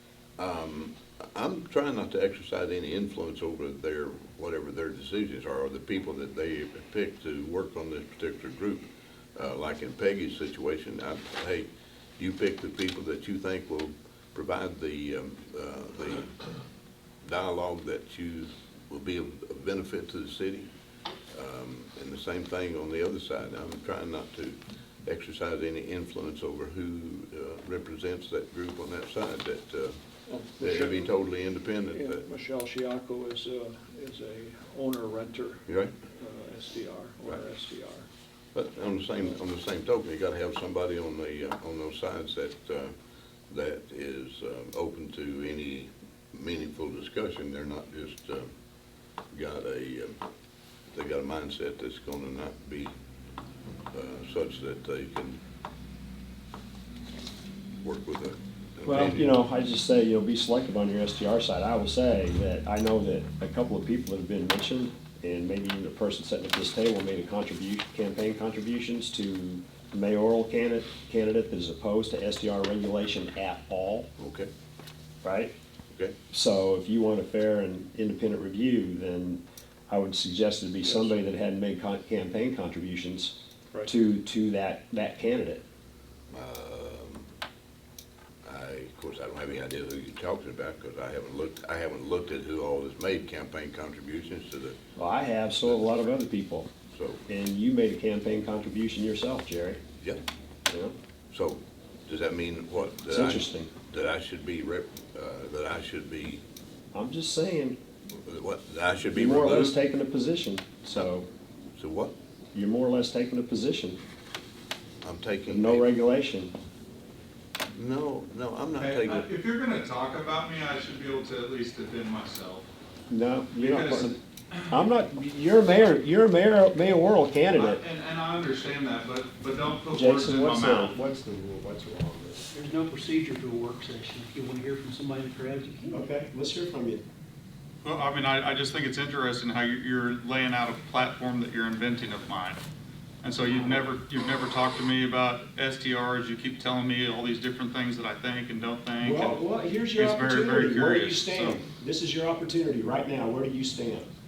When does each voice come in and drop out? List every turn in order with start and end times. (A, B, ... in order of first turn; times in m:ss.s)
0:00.4-0:16.3 A
0:17.2-0:20.7 A
0:21.3-0:30.0 A
0:30.3-0:31.2 B
0:30.6-0:32.2 A
0:31.7-0:38.1 B
0:35.7-0:35.9 A
0:38.5-0:42.9 A
0:43.5-0:48.5 A
0:49.3-0:50.2 A
0:50.9-0:52.9 A
0:53.9-0:55.4 A
0:57.8-0:59.3 A
0:58.8-1:14.1 C
1:14.2-1:14.5 A
1:15.2-1:15.5 C
1:15.9-1:16.2 A
1:16.3-1:25.6 C
1:20.8-1:21.1 B
1:26.3-1:27.3 A
1:28.4-1:34.8 A
1:35.0-1:36.7 C
1:36.9-1:37.2 A
1:37.3-1:39.8 C
1:40.7-1:40.9 C
1:41.3-1:46.4 A
1:43.1-1:43.7 C
1:46.9-1:47.8 C
1:48.2-1:49.7 A
1:49.1-1:51.3 C
1:51.8-1:52.1 A
1:52.5-1:54.0 C
1:55.0-1:55.8 A
1:55.5-1:56.5 C
1:57.7-1:59.3 A
1:58.8-2:02.7 D
2:03.1-2:04.2 C
2:03.6-2:04.8 D
2:04.7-2:07.8 C
2:07.5-2:10.9 D
2:09.9-2:12.5 C
2:12.5-2:16.0 E
2:15.9-2:17.0 C
2:17.8-2:22.6 D
2:23.2-2:29.4 D
2:29.0-2:34.1 C
2:29.9-2:31.6 D